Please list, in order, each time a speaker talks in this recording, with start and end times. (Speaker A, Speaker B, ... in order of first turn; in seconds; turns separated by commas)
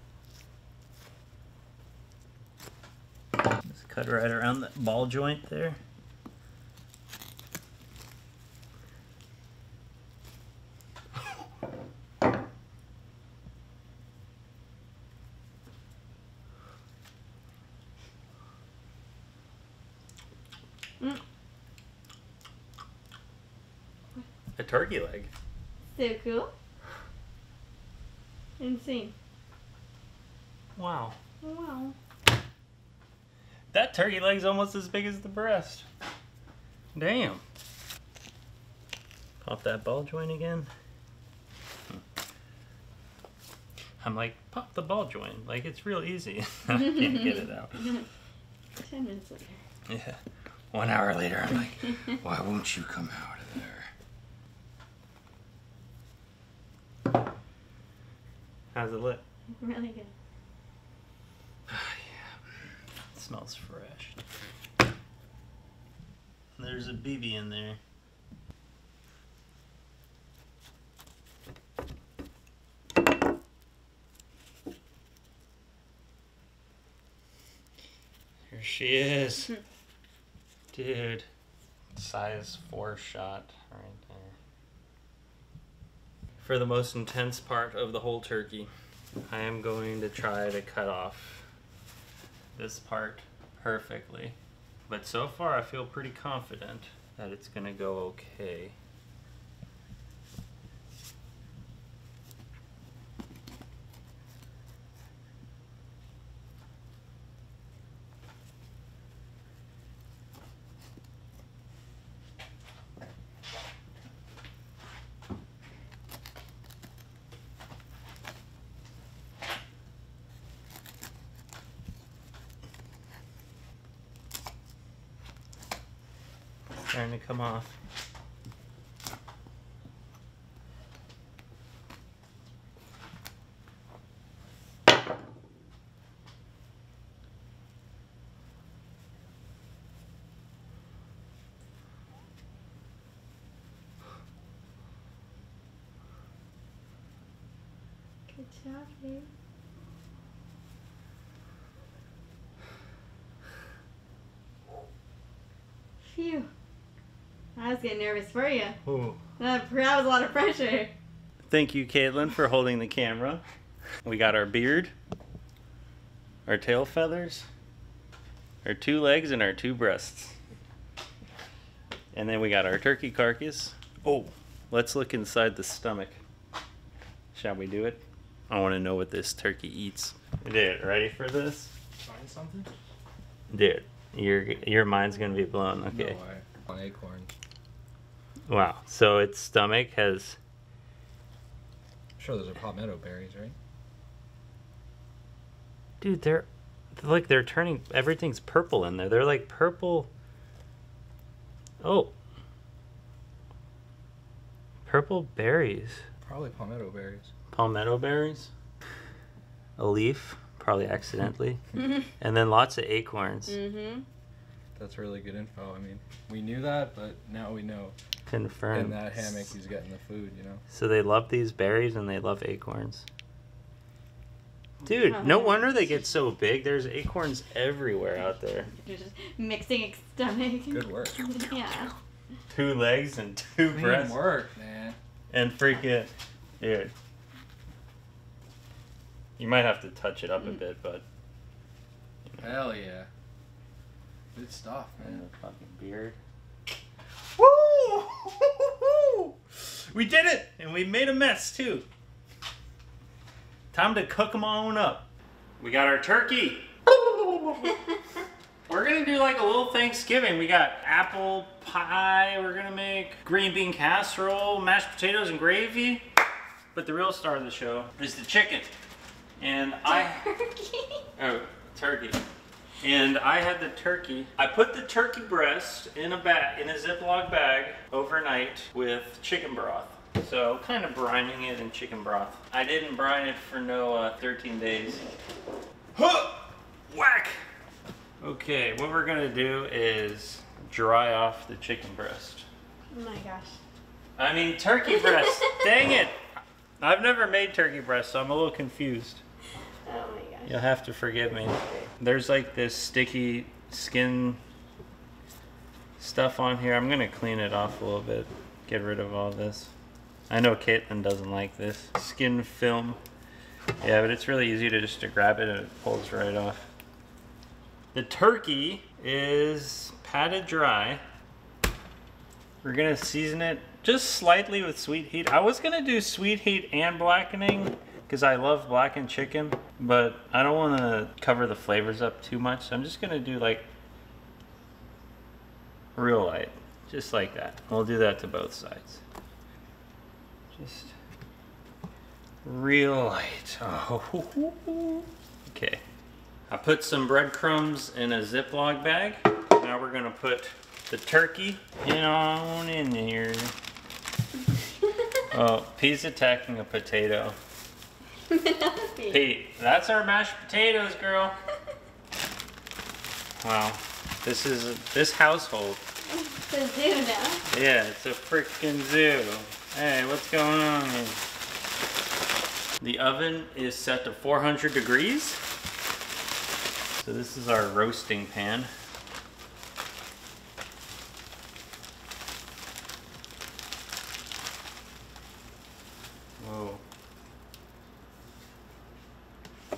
Speaker A: 3.6-5.8, Speaker A: 24.6-25.3, Speaker B: 25.9-26.5, Speaker B: 28.6-29.1, Speaker A: 30.8-31.1, Speaker B: 31.4-31.9, Speaker A: 33.7-35.8, Speaker A: 36.9-37.4, Speaker A: 39.4-40.7, Speaker A: 44.0-47.7, Speaker B: 46.7-48.0, Speaker B: 48.8-49.6, Speaker A: 49.9-50.2, Speaker A: 50.7-53.9, Speaker A: 58.7-59.2, Speaker B: 59.6-60.1, Speaker A: 61.7-62.3, Speaker A: 63.1-64.2, Speaker A: 66.6-67.8, Speaker A: 78.5-79.5, Speaker A: 80.7-81.2, Speaker A: 82.0-84.3, Speaker A: 86.4-88.7, Speaker A: 89.3-91.4, Speaker A: 92.6-94.3, Speaker A: 94.9-98.7, Speaker A: 126.9-127.7, Speaker B: 148.3-149.3, Speaker B: 156.1-156.5, Speaker B: 157.6-158.8, Speaker A: 158.8-159.2, Speaker B: 159.4-160.9, Speaker A: 161.5-163.4, Speaker A: 164.1-164.9, Speaker A: 166.5-167.4, Speaker A: 168.6-170.3, Speaker A: 172.1-176.2, Speaker A: 177.3-181.7, Speaker C: 182.0-182.7, Speaker A: 183.5-186.1, Speaker C: 185.7-187.3, Speaker A: 188.5-190.4, Speaker C: 192.2-193.6, Speaker A: 196.0-200.1, Speaker A: 201.8-202.1, Speaker A: 204.9-206.0, Speaker C: 206.2-207.3, Speaker A: 207.5-208.5, Speaker A: 209.8-211.6, Speaker A: 212.2-213.4, Speaker B: 213.5-214.1, Speaker C: 214.8-217.9, Speaker A: 218.3-219.4, Speaker C: 218.7-220.6, Speaker A: 220.7-223.0, Speaker A: 224.8-228.6, Speaker B: 224.9-225.8, Speaker B: 228.7-231.9, Speaker C: 230.7-231.3, Speaker A: 232.5-234.3, Speaker C: 233.7-235.0, Speaker A: 235.3-236.1, Speaker A: 236.6-236.9, Speaker A: 239.4-241.0, Speaker C: 242.4-243.1, Speaker C: 244.3-245.2, Speaker A: 245.0-246.2, Speaker A: 247.4-249.3, Speaker A: 249.9-251.8, Speaker A: 253.7-255.0, Speaker A: 255.6-257.6, Speaker A: 258.7-266.0, Speaker A: 266.7-268.7, Speaker A: 269.4-270.2, Speaker B: 269.8-271.0, Speaker A: 271.2-272.2, Speaker A: 272.8-285.0, Speaker A: 285.9-287.4, Speaker A: 288.2-292.4, Speaker B: 292.9-293.6, Speaker A: 294.2-296.1, Speaker B: 294.9-295.2, Speaker A: 296.8-299.2, Speaker B: 299.9-300.6, Speaker A: 300.5-304.4, Speaker A: 306.0-309.7, Speaker A: 310.3-313.0, Speaker A: 313.8-316.6, Speaker A: 317.9-321.0, Speaker A: 322.6-333.6, Speaker A: 335.9-339.0, Speaker A: 340.6-340.9, Speaker A: 342.4-345.8, Speaker A: 346.5-353.5, Speaker A: 355.3-357.3, Speaker B: 358.3-359.3, Speaker A: 359.1-361.3, Speaker A: 363.4-365.8, Speaker B: 366.1-367.4, Speaker A: 367.5-371.2, Speaker A: 372.8-375.4, Speaker A: 377.0-378.7, Speaker A: 386.4-386.8